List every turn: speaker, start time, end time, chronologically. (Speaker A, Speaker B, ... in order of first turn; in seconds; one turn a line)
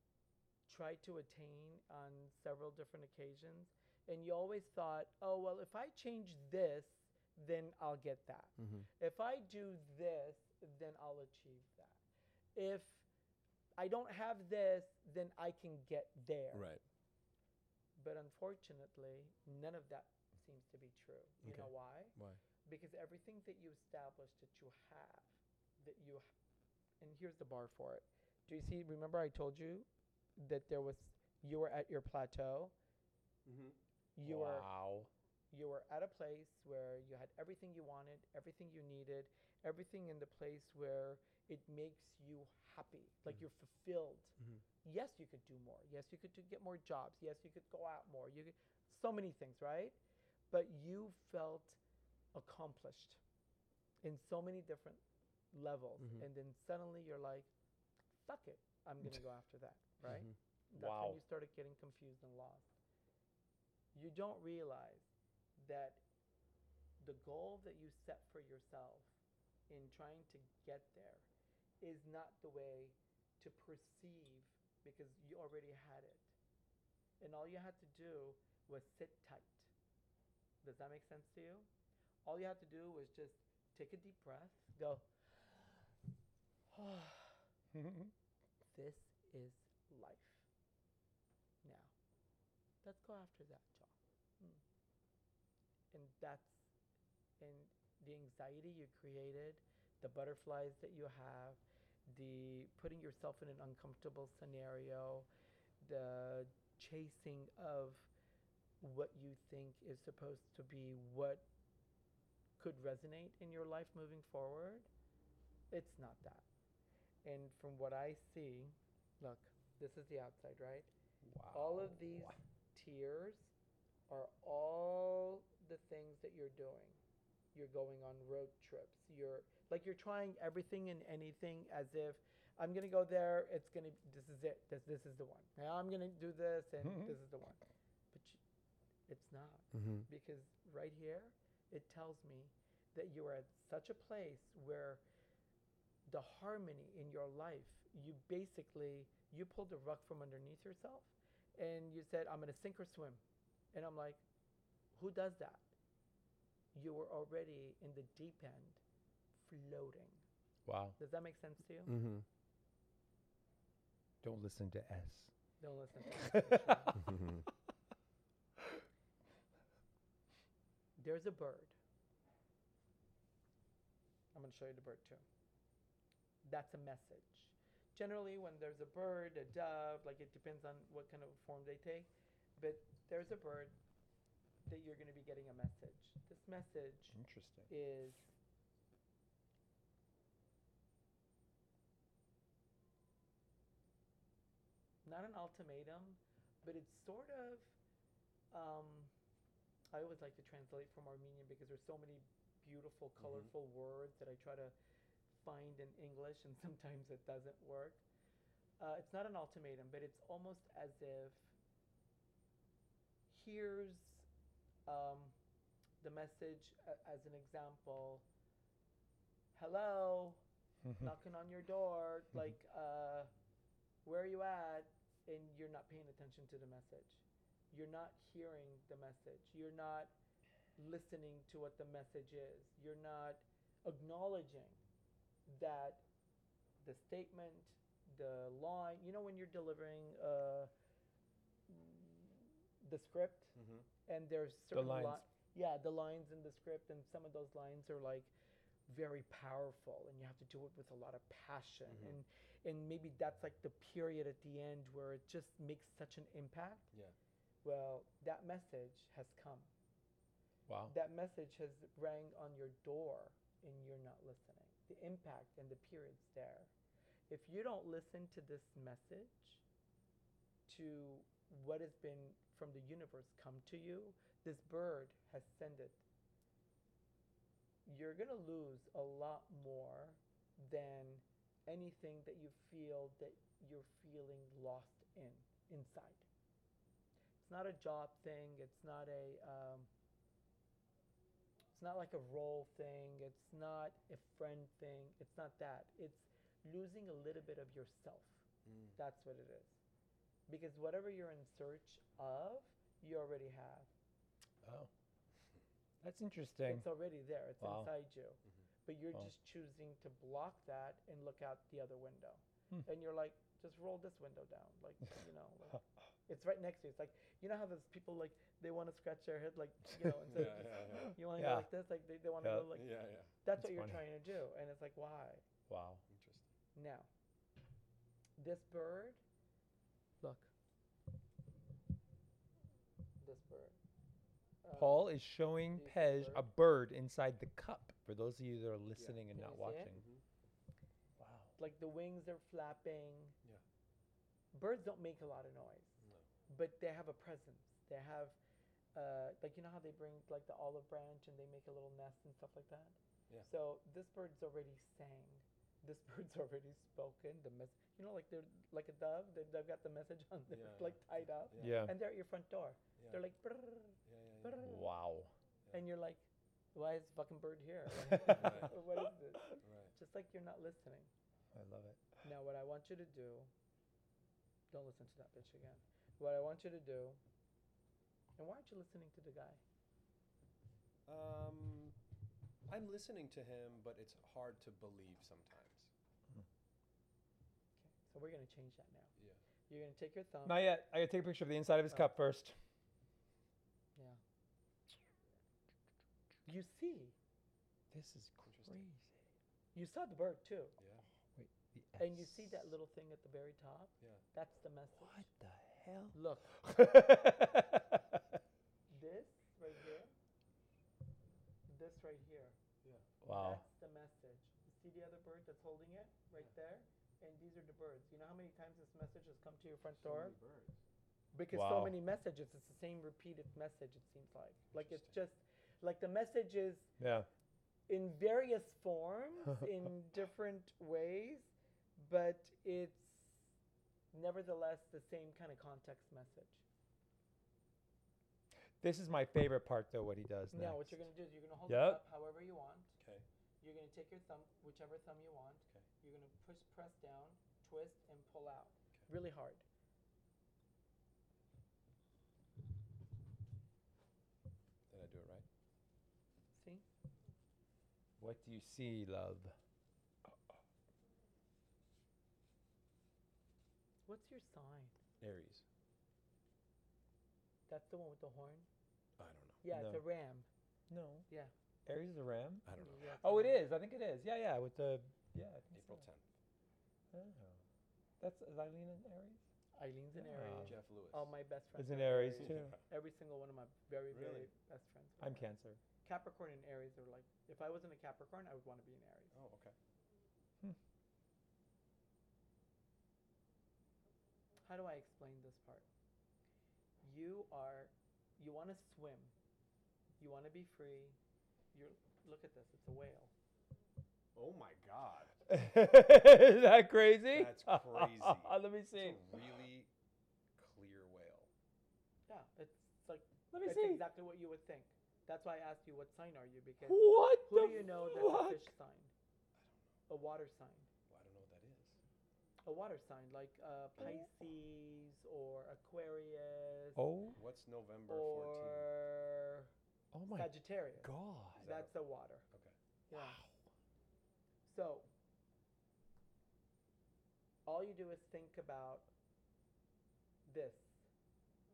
Speaker A: 0.7-12.0
Speaker B: 8.6-8.9
Speaker A: 12.6-13.1
Speaker A: 13.8-16.7
Speaker B: 16.5-16.8
Speaker A: 18.0-26.3
Speaker B: 21.4-22.4
Speaker A: 27.0-32.7
Speaker B: 33.5-33.8
Speaker A: 34.2-34.7
Speaker C: 34.2-35.1
Speaker A: 35.5-50.0
Speaker A: 50.5-51.8
Speaker A: 52.3-53.2
Speaker A: 54.0-57.5
Speaker B: 56.0-56.2
Speaker A: 58.2-62.7
Speaker B: 60.0-60.4
Speaker C: 60.8-61.2
Speaker A: 63.9-65.1
Speaker A: 65.6-66.0
Speaker A: 67.0-69.1
Speaker A: 69.7-71.2
Speaker A: 71.8-76.3
Speaker A: 77.2-79.7
Speaker A: 80.6-81.7
Speaker A: 82.2-85.9
Speaker A: 86.7-87.4
Speaker C: 87.7-88.1
Speaker A: 88.7-90.5
Speaker A: 91.6-91.9
Speaker A: 92.8-94.6
Speaker A: 95.9-96.6
Speaker A: 97.4-105.3
Speaker A: 105.8-108.1
Speaker A: 108.8-111.5
Speaker A: 112.6-114.9
Speaker A: 115.7-116.4
Speaker A: 117.2-120.9
Speaker C: 121.3-122.4
Speaker A: 121.5-123.5
Speaker A: 124.1-127.0
Speaker A: 127.5-137.6
Speaker C: 136.8-137.2
Speaker A: 138.1-138.4
Speaker A: 139.1-145.0
Speaker B: 139.7-140.1
Speaker A: 146.1-153.2
Speaker A: 153.7-154.2
Speaker A: 154.9-155.7
Speaker A: 156.7-158.8
Speaker A: 159.4-160.2
Speaker C: 160.7-161.0
Speaker A: 161.0-162.0
Speaker B: 161.9-162.2
Speaker C: 164.2-165.3
Speaker A: 165.6-167.1
Speaker C: 166.3-166.7
Speaker B: 167.0-167.5
Speaker A: 171.0-171.8
Speaker A: 174.3-175.2
Speaker A: 176.4-183.8
Speaker A: 184.7-187.2
Speaker C: 187.1-187.7
Speaker A: 187.7-188.3
Speaker A: 195.1-197.7
Speaker A: 198.5-199.1
Speaker A: 199.9-204.7
Speaker B: 203.2-203.5
Speaker A: 205.4-208.0
Speaker A: 208.8-211.5
Speaker A: 213.3-214.3
Speaker A: 214.9-215.3
Speaker A: 216.0-218.2
Speaker A: 219.5-220.4
Speaker A: 221.0-223.3
Speaker A: 224.0-230.1
Speaker A: 230.8-234.8
Speaker A: 235.5-236.0
Speaker A: 236.8-240.7
Speaker A: 241.7-243.5
Speaker B: 243.6-243.9
Speaker A: 244.1-248.3
Speaker C: 244.7-245.2
Speaker A: 248.9-256.9
Speaker B: 251.9-252.2
Speaker A: 257.6-259.7
Speaker C: 260.7-260.9
Speaker A: 260.9-266.7
Speaker A: 267.3-269.6
Speaker A: 270.7-276.0
Speaker A: 277.9-286.2
Speaker A: 287.4-289.9
Speaker A: 291.8-298.4
Speaker B: 298.6-299.0
Speaker A: 299.0-299.8
Speaker A: 300.5-303.9
Speaker C: 304.6-304.9
Speaker C: 306.0-306.9
Speaker A: 306.7-322.9
Speaker C: 307.6-307.9
Speaker B: 320.3-321.2
Speaker C: 321.4-321.7
Speaker B: 322.7-323.3
Speaker A: 323.4-325.4
Speaker C: 323.6-324.0
Speaker C: 325.7-326.0
Speaker B: 326.1-326.5
Speaker A: 326.8-327.1
Speaker A: 328.4-329.2
Speaker A: 330.2-330.5
Speaker A: 333.2-333.8
Speaker A: 334.6-335.1
Speaker C: 334.8-340.0
Speaker A: 335.8-336.5
Speaker B: 339.0-339.2
Speaker A: 339.3-339.9
Speaker B: 339.9-340.2
Speaker C: 341.2-341.5
Speaker A: 341.6-343.4
Speaker A: 344.5-346.0
Speaker B: 346.0-346.3
Speaker A: 346.5-348.4
Speaker A: 348.9-364.9
Speaker B: 360.5-361.9
Speaker C: 361.6-361.9
Speaker B: 363.0-363.2
Speaker B: 364.0-364.8
Speaker C: 364.6-365.3
Speaker A: 365.7-371.1
Speaker C: 368.1-368.6
Speaker B: 368.4-368.8
Speaker B: 369.6-369.9
Speaker C: 371.5-372.0
Speaker A: 372.2-373.5
Speaker A: 374.7-377.2
Speaker A: 378.4-379.6
Speaker B: 381.1-382.0
Speaker B: 382.7-385.9
Speaker A: 387.8-389.1
Speaker B: 389.2-389.4
Speaker A: 389.7-390.7
Speaker C: 390.5-392.5
Speaker A: 396.5-397.1
Speaker C: 397.9-399.2
Speaker B: 398.4-398.9
Speaker A: 399.7-400.8
Speaker B: 400.8-401.0
Speaker C: 401.4-402.6
Speaker A: 402.0-405.3
Speaker C: 405.1-408.0
Speaker A: 406.1-406.5
Speaker A: 408.9-410.1
Speaker A: 411.7-412.6
Speaker C: 413.2-413.6
Speaker A: 413.3-420.4
Speaker B: 420.0-420.8
Speaker A: 421.3-426.9
Speaker C: 421.5-422.0
Speaker B: 424.8-425.1
Speaker C: 427.0-427.3
Speaker A: 427.9-433.4
Speaker A: 434.1-436.6
Speaker C: 438.8-441.1
Speaker A: 440.5-442.9
Speaker C: 441.7-442.0
Speaker B: 443.0-443.2
Speaker A: 443.6-449.6
Speaker B: 454.9-455.5
Speaker A: 456.5-456.9
Speaker C: 458.2-459.6
Speaker A: 464.1-464.9
Speaker B: 465.2-465.6
Speaker A: 467.7-468.7
Speaker B: 469.2-469.6
Speaker A: 469.6-470.5
Speaker C: 469.7-470.0
Speaker C: 470.9-471.3
Speaker C: 471.9-472.7
Speaker B: 472.6-473.2
Speaker A: 472.8-473.6
Speaker C: 473.2-476.0
Speaker B: 475.7-476.3
Speaker C: 477.1-477.6
Speaker C: 478.2-479.4
Speaker A: 479.8-485.5
Speaker C: 480.2-480.8
Speaker B: 480.6-481.3
Speaker C: 481.8-482.8
Speaker B: 482.4-482.8
Speaker B: 484.1-484.5
Speaker C: 485.2-485.8
Speaker A: 486.0-489.3
Speaker B: 489.3-489.8
Speaker A: 494.6-495.9
Speaker A: 497.0-499.3
Speaker A: 500.2-501.2
Speaker A: 501.7-503.3
Speaker B: 504.4-505.4
Speaker C: 505.5-509.2
Speaker B: 507.3-509.9
Speaker B: 510.6-511.5
Speaker A: 512.3-519.1
Speaker C: 513.5-514.0
Speaker C: 516.9-518.7
Speaker B: 519.6-519.9
Speaker A: 520.1-520.9
Speaker B: 521.1-522.0
Speaker A: 522.7-527.0
Speaker C: 524.0-524.2
Speaker C: 527.0-527.4
Speaker B: 527.3-528.9
Speaker A: 528.1-529.7
Speaker C: 530.1-531.6
Speaker A: 530.3-532.5
Speaker B: 531.6-531.9
Speaker A: 533.1-533.4
Speaker C: 533.1-533.5
Speaker A: 534.7-535.1
Speaker A: 537.7-539.1
Speaker A: 540.5-540.9